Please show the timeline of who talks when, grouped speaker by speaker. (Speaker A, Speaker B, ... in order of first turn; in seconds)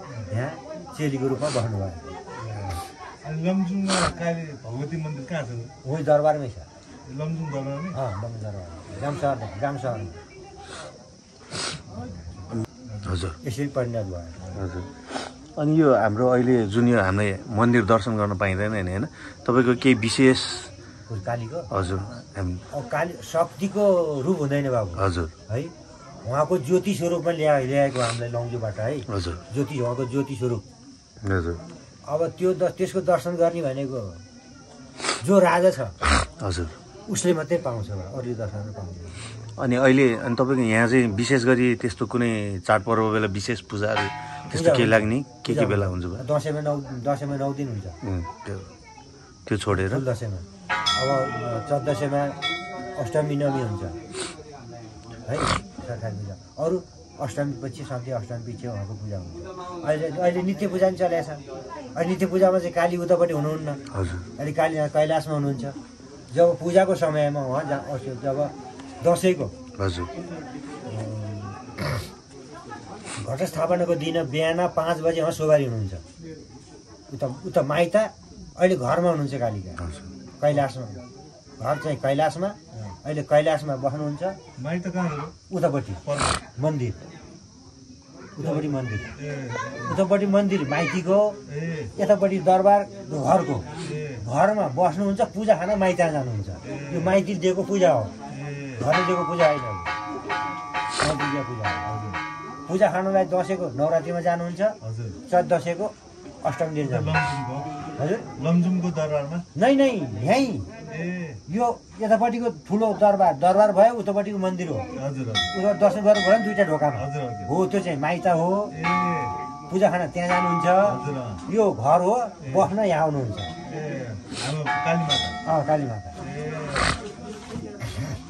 Speaker A: 0.3-2.0, 5.8-6.7, 7.9-10.2, 13.4-14.5, 21.1-21.7, 22.7-25.7, 26.2-30.6, 32.1-34.2, 35.2-36.0, 37.1-39.1, 44.5-48.0, 49.7-50.4, 51.0-52.4, 53.0-54.0, 55.3-61.4, 61.9-63.8, 64.4-65.7, 66.3-69.5, 70.9-71.9, 73.2-76.0, 77.1-79.8, 80.4-81.0, 81.6-84.4, 85.5-86.0, 86.5-87.0, 88.4-89.1, 89.8-91.4, 92.0-93.7, 94.2-98.1, 98.8-99.9, 101.0-101.9, 102.7-104.8, 105.3-107.2, 108.0-108.3, 109.5-110.7, 111.5-114.9, 115.5-118.7, 119.7-123.5, 125.4-126.1
Speaker B: 2.4-5.7, 7.1-8.0, 84.6-85.3, 86.0-86.4, 88.4-88.6, 89.2-90.0, 91.5-91.9, 93.8-94.2, 96.6-97.2, 98.3-98.8, 101.9-102.2, 104.8-105.2, 106.8-107.7, 108.3-109.5, 110.9-111.4, 114.9-115.5, 117.0-117.5, 118.7-119.4, 120.8-121.4, 122.4-122.7, 123.6-125.4, 126.2-127.0
Speaker C: 12.6-13.4, 14.5-20.7, 21.7-22.6, 25.0-25.3, 29.1-29.4, 31.2-31.6, 36.4-36.7, 39.6-46.2, 48.0-48.7, 49.5-50.0, 63.9-64.2, 69.8-70.1, 79.8-80.1